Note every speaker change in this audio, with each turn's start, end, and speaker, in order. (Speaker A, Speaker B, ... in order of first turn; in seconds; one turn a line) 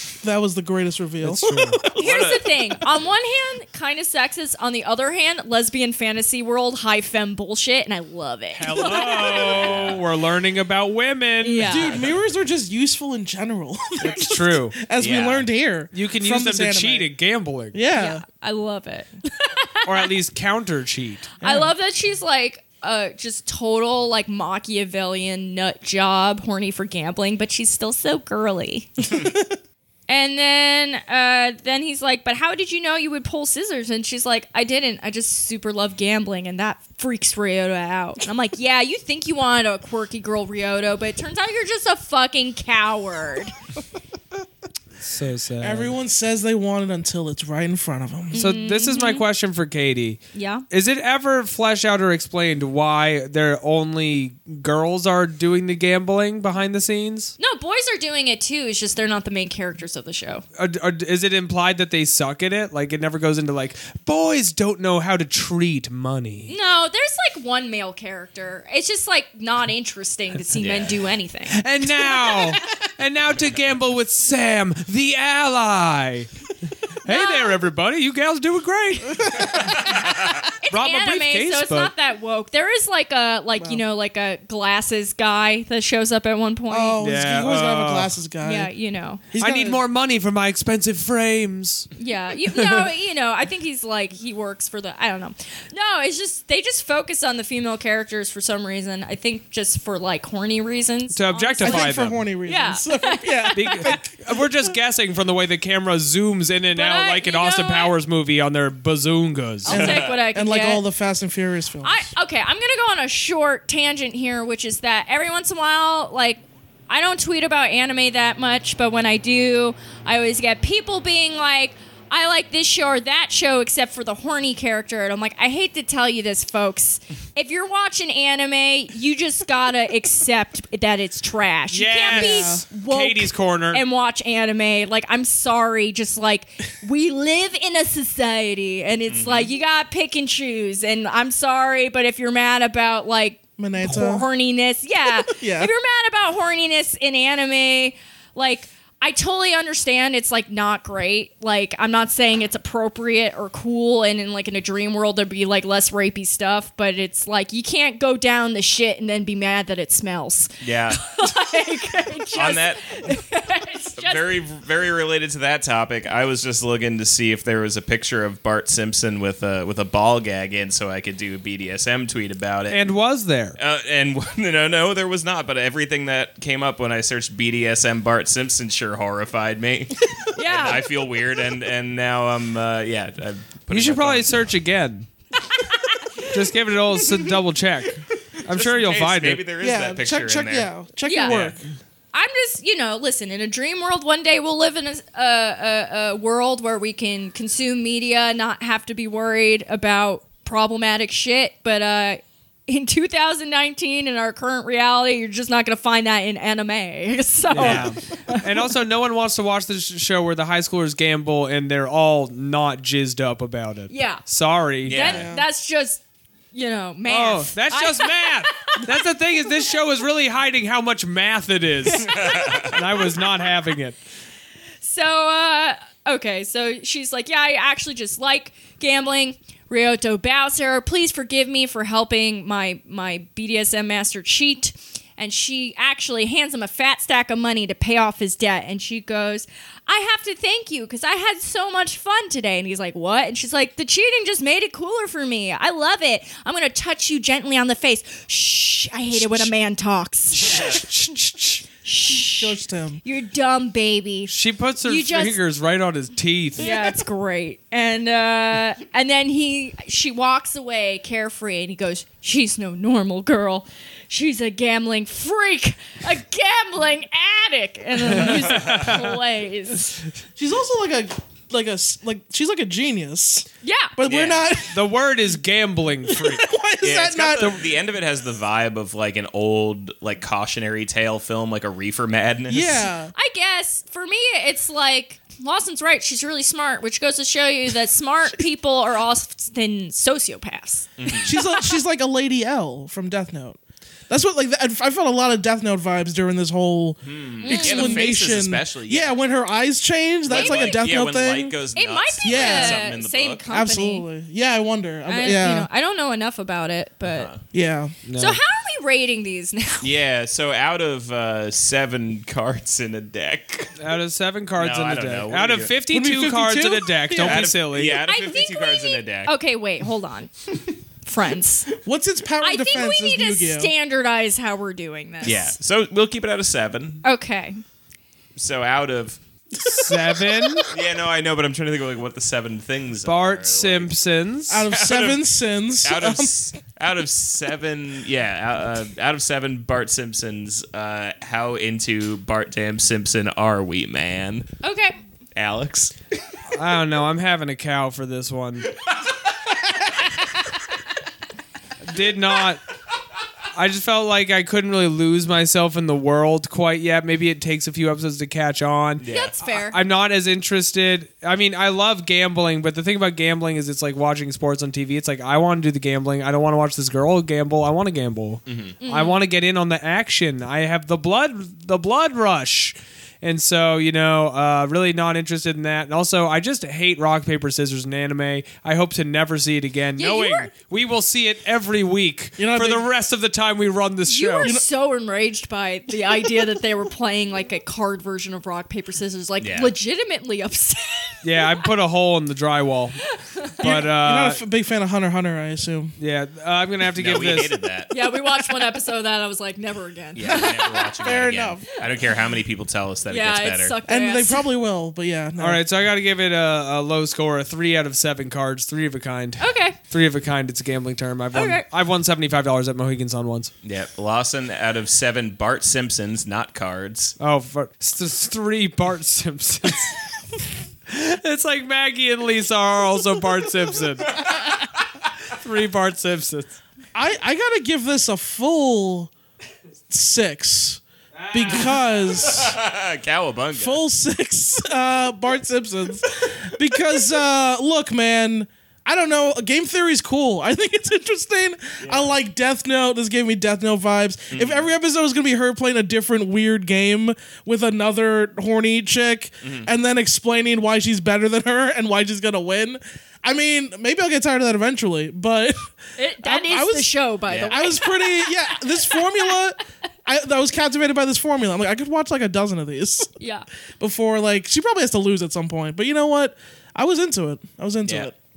Speaker A: 0.2-2.0
Speaker B: 1.2-1.8
Speaker C: 1.9-2.5
Speaker D: 1.9-9.9
Speaker B: 8.5-11.9
Speaker C: 9.4-10.0
Speaker D: 11.4-12.0
Speaker A: 11.7-17.1
Speaker B: 14.0-14.8
Speaker C: 15.0-15.4
Speaker B: 15.9-17.8
Speaker A: 17.7-18.2
Speaker D: 17.9-20.1
Speaker B: 19.8-21.3
Speaker D: 21.4-29.1
Speaker A: 21.4-21.7
Speaker A: 29.0-29.4
Speaker D: 30.1-43.5
Speaker B: 45.0-45.9
Speaker A: 45.6-48.4
Speaker D: 48.3-49.2
Speaker B: 48.3-57.3
Speaker D: 50.3-50.6
Speaker D: 57.4-60.4
Speaker B: 60.6-66.5
Speaker D: 66.5-72.6
Speaker C: 70.5-71.1
Speaker B: 71.5-76.3
Speaker B: 77.0-80.0
Speaker D: 77.0-77.6
Speaker A: 79.2-80.1
Speaker D: 79.7-87.0
Speaker C: 80.2-80.4
Speaker B: 80.7-81.9
Speaker A: 86.7-88.7
Speaker B: 87.0-88.1
Speaker D: 88.4-89.2
Speaker A: 89.3-89.8
Speaker B: 89.4-91.9
Speaker D: 92.0-104.0
Speaker B: 92.5-92.8
Speaker B: 101.1-102.2
Speaker A: 101.6-104.0
Speaker B: 103.5-109.8
Speaker D: 106.7-107.9
Speaker D: 109.7-110.8
Speaker A: 109.7-112.1
Speaker C: 109.7-110.2
Speaker D: 111.8-164.3
Speaker B: 131.7-133.8
Speaker A: 132.1-132.6
Speaker C: 139.1-139.5
Speaker A: 143.6-144.2
Speaker A: 145.3-145.7
Speaker C: 160.6-161.1
Speaker C: 162.3-163.0
Speaker C: 164.0-172.8
Speaker B: 172.7-173.6
Speaker C: 173.6-184.5
Speaker D: 180.3-180.8
Speaker B: 183.7-185.1
Speaker D: 185.4-186.3
Speaker B: 186.2-189.4
Speaker C: 188.5-190.7
Speaker A: 189.6-191.6
Speaker D: 191.0-191.3
Speaker C: 191.3-191.6
Speaker D: 192.1-208.5
Speaker B: 207.5-215.0
Speaker C: 207.6-207.9
Speaker D: 213.9-214.2
Speaker C: 214.8-215.3
Speaker D: 214.9-216.0
Speaker A: 215.0-215.4
Speaker D: 216.5-218.8
Speaker B: 217.1-224.0
Speaker D: 221.9-223.4
Speaker C: 221.9-222.8
Speaker D: 224.8-251.0
Speaker A: 249.1-249.5
Speaker B: 250.6-251.2
Speaker D: 251.7-255.4
Speaker A: 252.2-253.0
Speaker B: 254.3-256.7
Speaker D: 256.6-270.0
Speaker A: 256.6-256.9
Speaker B: 268.2-269.0
Speaker C: 268.6-268.9
Speaker A: 270.4-274.8
Speaker D: 273.6-273.9
Speaker C: 274.1-274.5
Speaker B: 274.7-276.5
Speaker A: 276.1-277.7
Speaker C: 276.8-282.9
Speaker A: 282.5-283.1
Speaker D: 283.1-291.6
Speaker C: 291.0-291.3
Speaker A: 291.2-301.5
Speaker C: 297.0-299.1
Speaker D: 297.4-298.1
Speaker D: 300.3-300.9
Speaker C: 300.3-303.4
Speaker D: 301.7-304.1
Speaker A: 302.2-302.8
Speaker A: 303.5-305.7
Speaker D: 305.1-307.3
Speaker C: 307.1-307.4
Speaker A: 307.5-307.9
Speaker B: 308.1-308.4
Speaker D: 308.1-309.9
Speaker C: 309.8-313.7
Speaker B: 313.8-318.0
Speaker C: 314.6-315.7
Speaker A: 315.9-317.5
Speaker C: 317.2-319.3
Speaker D: 318.0-320.3
Speaker D: 321.0-321.7
Speaker A: 321.8-323.7
Speaker D: 322.4-325.6
Speaker C: 325.2-327.0
Speaker D: 327.0-327.6
Speaker C: 328.4-329.2
Speaker B: 329.6-330.7
Speaker A: 329.7-330.6
Speaker C: 330.7-333.9
Speaker B: 333.0-334.6
Speaker A: 334.5-336.3
Speaker C: 334.6-335.2
Speaker C: 335.8-344.5
Speaker D: 344.6-345.0
Speaker C: 345.4-345.9
Speaker B: 346.5-348.7
Speaker B: 351.8-352.6
Speaker B: 353.5-384.5
Speaker C: 359.0-359.3
Speaker D: 359.0-359.8
Speaker C: 368.5-368.8
Speaker D: 368.8-369.2
Speaker D: 380.0-380.5
Speaker A: 382.4-382.9
Speaker D: 384.1-391.6
Speaker C: 389.4-389.7
Speaker B: 391.2-394.4
Speaker D: 393.2-393.5
Speaker A: 393.6-395.9
Speaker B: 396.0-397.6
Speaker C: 396.9-397.9
Speaker D: 397.9-400.8
Speaker C: 400.1-403.8
Speaker A: 400.2-401.8
Speaker D: 403.1-404.5
Speaker A: 403.9-405.6
Speaker B: 405.4-413.5
Speaker D: 409.4-409.8
Speaker D: 411.3-411.6
Speaker C: 413.6-417.1
Speaker B: 417.2-420.0
Speaker B: 420.9-424.2
Speaker C: 424.1-424.4
Speaker B: 425.3-426.6
Speaker A: 426.9-429.1
Speaker A: 429.9-430.8
Speaker B: 431.1-431.8
Speaker A: 431.3-432.6
Speaker C: 431.5-433.8
Speaker A: 433.5-463.1
Speaker C: 441.8-442.1
Speaker C: 444.3-444.6
Speaker C: 449.4-449.7
Speaker D: 456.0-459.3
Speaker C: 457.3-457.6
Speaker D: 463.2-463.4
Speaker A: 463.8-468.1
Speaker C: 467.8-468.1